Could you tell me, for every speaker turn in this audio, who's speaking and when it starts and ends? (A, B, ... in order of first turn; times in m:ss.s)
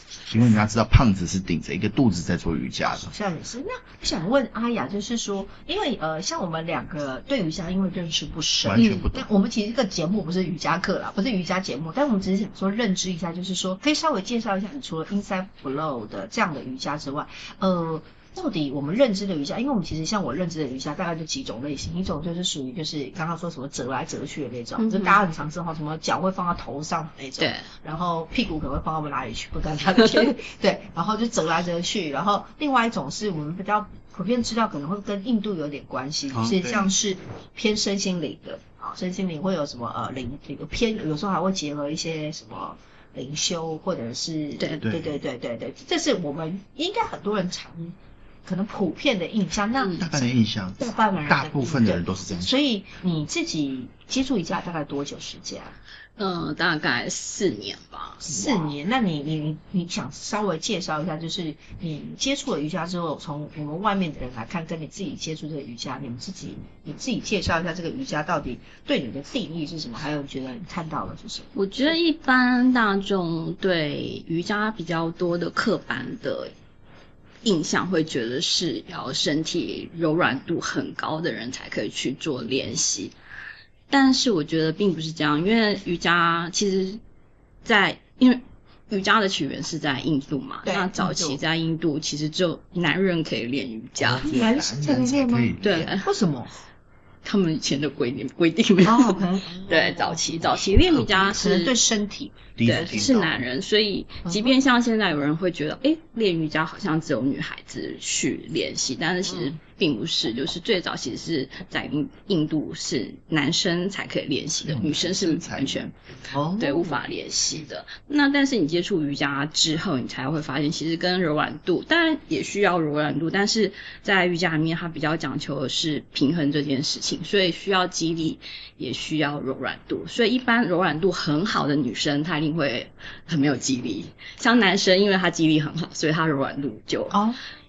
0:00.3-0:03.1 A
0:02.8-0:55.7 B
0:08.6-0:09.3 A
0:08.7-0:09.0 C
0:24.8-0:25.2 C
0:27.4-0:27.7 C
0:36.3-0:36.9 A
0:44.8-0:45.2 A
0:49.8-0:50.0 C
0:50.0-0:52.6 A
0:56.2-0:58.7 C
0:58.2-1:11.9 B
1:11.5-1:16.5 C
1:17.4-1:23.1 C
1:23.9-1:27.0 C
1:27.6-1:34.4 C
1:30.6-1:31.4 B
1:34.0-1:35.9 A
1:34.2-1:36.5 B
1:35.6-1:36.1 C
1:37.2-1:41.8 C
1:38.8-1:40.4 B
1:40.5-1:41.4 A
1:41.3-1:43.1 B
1:42.6-1:43.4 A
1:42.6-1:55.9 C
1:44.2-1:44.5 B
1:54.6-1:55.8 A
1:56.3-1:57.0 B
1:56.6-2:17.2 C
2:17.1-2:17.4 B